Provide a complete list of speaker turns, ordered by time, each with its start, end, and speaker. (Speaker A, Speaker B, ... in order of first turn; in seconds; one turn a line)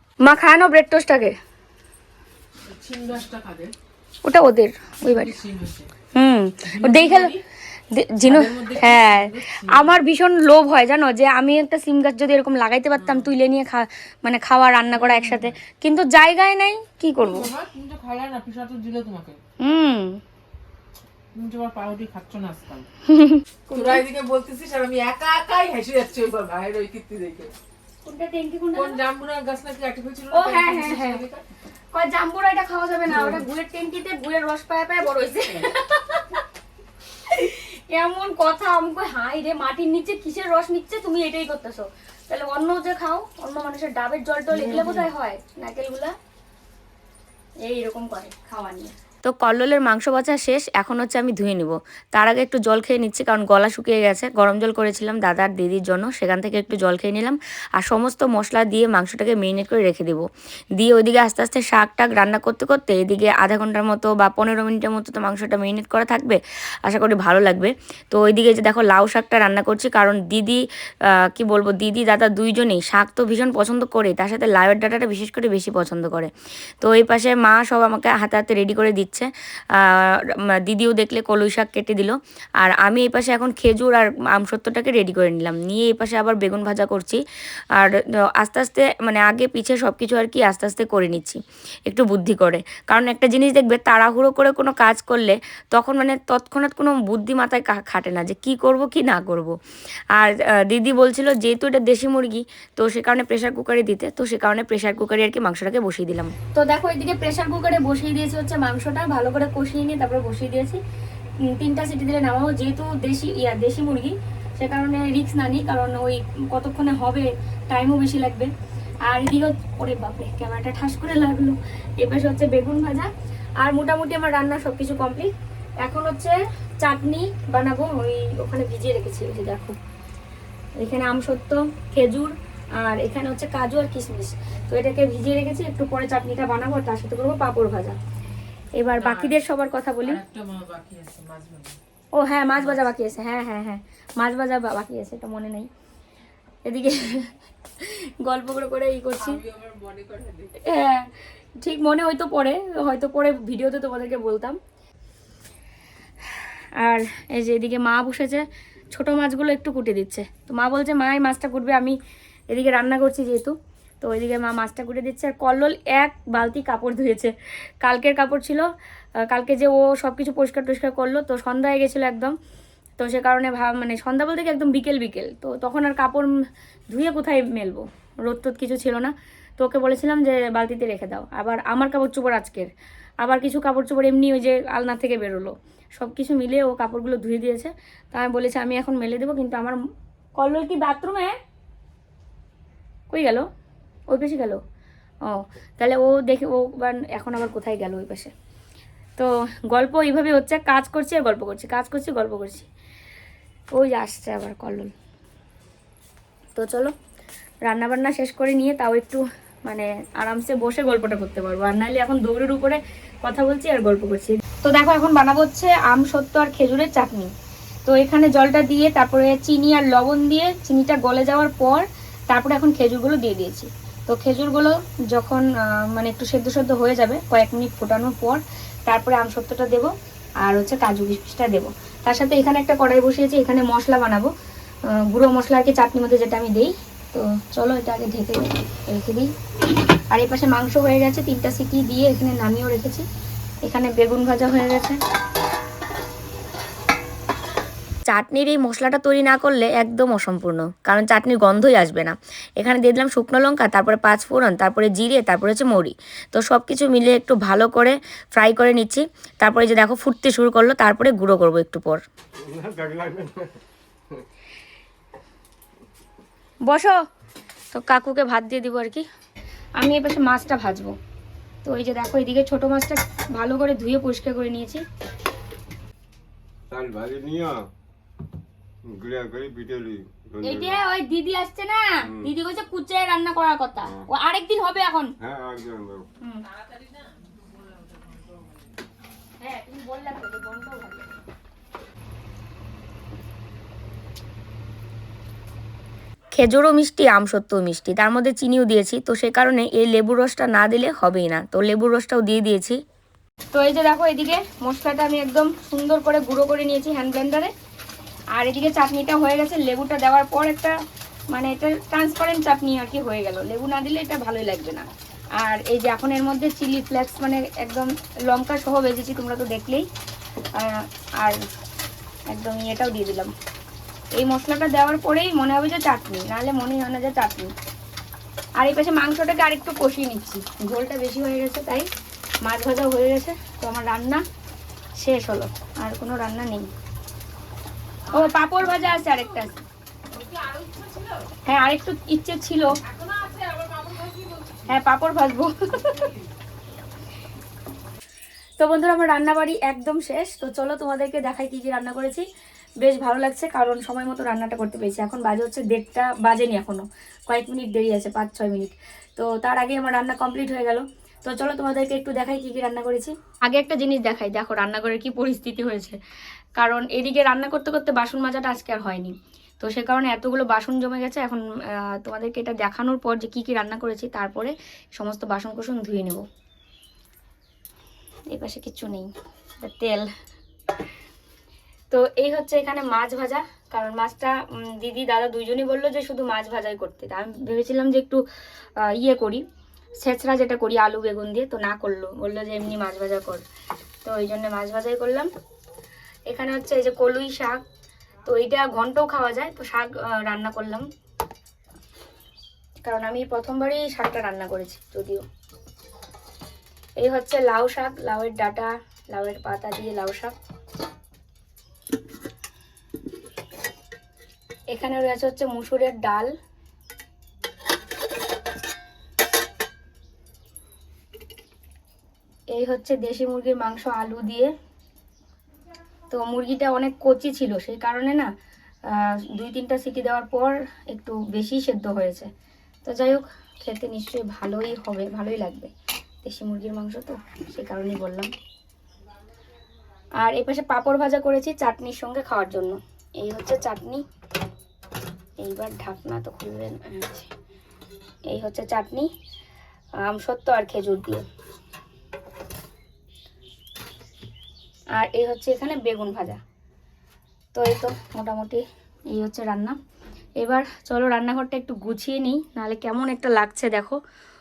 Speaker A: 0.2-1.4
Speaker B: 2.6-3.7
Speaker A: 4.2-5.3
Speaker B: 5.0-5.9
Speaker A: 6.1-7.3
Speaker B: 6.7-7.4
Speaker A: 7.9-17.5
Speaker B: 8.2-10.0
Speaker B: 13.0-13.3
Speaker B: 14.9-15.6
Speaker B: 17.2-19.4
Speaker A: 19.6-20.2
Speaker B: 21.4-22.9
Speaker A: 23.1-24.0
Speaker B: 23.7-27.5
Speaker A: 28.0-29.0
Speaker B: 28.8-31.4
Speaker A: 30.3-31.2
Speaker A: 31.9-36.4
Speaker B: 33.1-33.4
Speaker A: 37.3-46.1
Speaker B: 44.5-45.1
Speaker A: 47.6-60.2
Speaker A: 60.8-70.6
Speaker A: 71.2-87.2
Speaker A: 87.8-99.5
Speaker A: 100.2-110.8
Speaker A: 111.5-118.5
Speaker A: 119.1-129.8
Speaker A: 130.8-138.0
Speaker A: 138.8-140.2
Speaker B: 138.9-139.4
Speaker B: 140.0-141.8
Speaker A: 142.1-145.7
Speaker A: 146.7-149.4
Speaker B: 149.2-150.6
Speaker A: 150.6-154.6
Speaker A: 156.3-162.0
Speaker A: 162.5-168.7
Speaker A: 169.2-172.4
Speaker A: 173.0-176.3
Speaker A: 176.9-182.7
Speaker A: 183.2-189.8
Speaker A: 190.4-191.4
Speaker A: 193.1-193.5
Speaker A: 194.1-194.6
Speaker A: 195.2-198.3
Speaker A: 199.2-202.7
Speaker A: 203.7-204.9
Speaker A: 206.6-206.9
Speaker A: 207.7-217.3
Speaker A: 217.9-229.9
Speaker A: 230.4-234.3
Speaker A: 234.9-239.3
Speaker A: 240.1-243.1
Speaker A: 243.6-245.0
Speaker A: 248.1-262.0
Speaker C: 262.4-263.6
Speaker A: 266.7-267.0
Speaker A: 267.7-269.1
Speaker A: 269.8-270.9
Speaker A: 271.6-274.8
Speaker C: 276.7-277.7
Speaker C: 278.9-280.8
Speaker A: 280.4-285.1
Speaker C: 282.1-282.3
Speaker C: 285.2-286.0
Speaker B: 286.4-288.8
Speaker A: 289.4-291.1
Speaker A: 296.3-302.8
Speaker A: 303.5-307.5
Speaker A: 308.3-310.8
Speaker A: 311.3-319.9
Speaker A: 320.5-321.4
Speaker A: 322.3-323.3
Speaker A: 324.1-327.5
Speaker A: 328.6-331.9
Speaker A: 332.4-334.2
Speaker A: 335.0-336.7
Speaker B: 338.0-339.5
Speaker A: 338.1-339.5
Speaker B: 340.1-341.3
Speaker A: 341.5-342.7
Speaker B: 342.9-344.8
Speaker A: 344.7-346.0
Speaker B: 345.7-346.3
Speaker A: 348.6-352.2
Speaker A: 352.8-366.0
Speaker A: 366.6-376.2
Speaker A: 378.3-379.1
Speaker A: 379.6-380.1
Speaker A: 381.9-388.2
Speaker A: 388.8-389.4
Speaker A: 390.0-393.4
Speaker A: 394.0-395.3
Speaker A: 396.3-397.6
Speaker A: 398.2-400.9
Speaker A: 402.8-405.2
Speaker A: 407.0-410.4
Speaker A: 414.7-416.3
Speaker A: 422.5-424.5
Speaker A: 426.1-428.3
Speaker A: 428.9-432.3
Speaker A: 432.9-435.7
Speaker A: 436.2-438.3
Speaker A: 440.2-444.1
Speaker A: 445.4-447.3
Speaker A: 448.3-449.1
Speaker A: 450.0-451.3
Speaker A: 454.9-456.4
Speaker A: 457.5-459.8
Speaker A: 460.4-464.0